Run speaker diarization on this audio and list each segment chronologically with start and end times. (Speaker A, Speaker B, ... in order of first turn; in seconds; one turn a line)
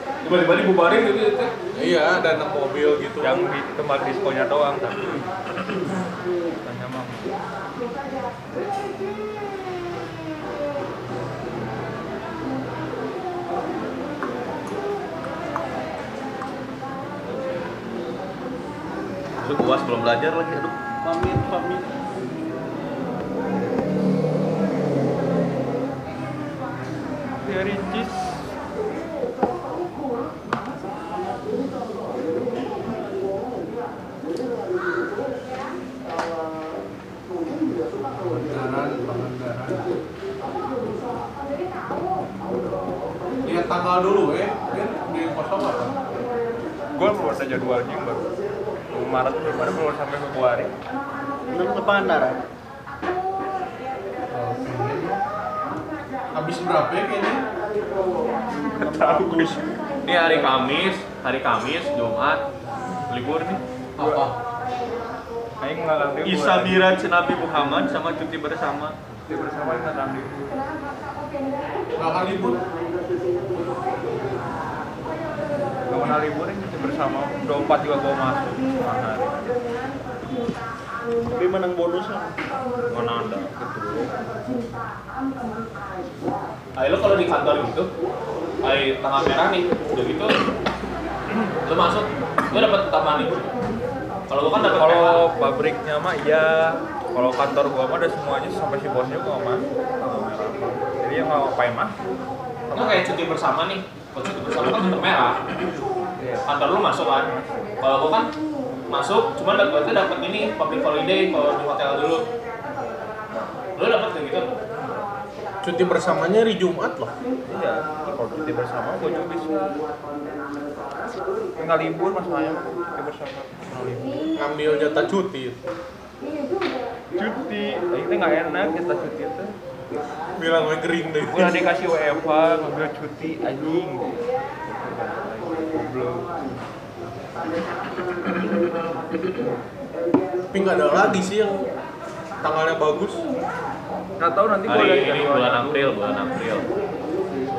Speaker A: 0.2-1.5
Speaker B: 1.7-3.4
Speaker C: 3.2-5.3
Speaker C: 6.6-7.3
Speaker D: 19.4-20.8
Speaker E: 21.0-21.9
Speaker C: 27.4-28.4
Speaker B: 38.3-39.9
Speaker B: 43.4-46.0
Speaker C: 46.9-48.2
Speaker C: 48.9-50.7
Speaker E: 51.5-52.4
Speaker B: 54.3-55.2
Speaker B: 56.3-57.4
Speaker E: 58.6-59.6
Speaker C: 58.8-59.7
Speaker D: 60.0-62.4
Speaker D: 63.1-63.6
Speaker B: 64.0-64.4
Speaker C: 64.0-64.3
Speaker C: 65.6-66.8
Speaker D: 66.2-69.0
Speaker C: 69.2-70.5
Speaker B: 72.0-72.6
Speaker C: 75.9-79.3
Speaker E: 81.3-82.3
Speaker C: 82.9-84.2
Speaker A: 86.8-87.9
Speaker A: 88.6-90.4
Speaker A: 91.6-93.5
Speaker A: 94.3-95.2
Speaker C: 94.8-101.9
Speaker C: 102.7-103.0
Speaker A: 102.7-105.4
Speaker C: 106.2-106.5
Speaker A: 106.5-108.3
Speaker A: 108.9-112.2
Speaker A: 113.8-114.5
Speaker B: 115.6-117.1
Speaker C: 117.5-119.7
Speaker C: 121.5-123.5
Speaker B: 123.7-125.6
Speaker C: 127.1-129.5
Speaker B: 130.3-131.7
Speaker C: 131.3-136.5
Speaker B: 140.5-141.7
Speaker B: 142.4-143.2
Speaker C: 144.2-145.9
Speaker D: 144.6-146.7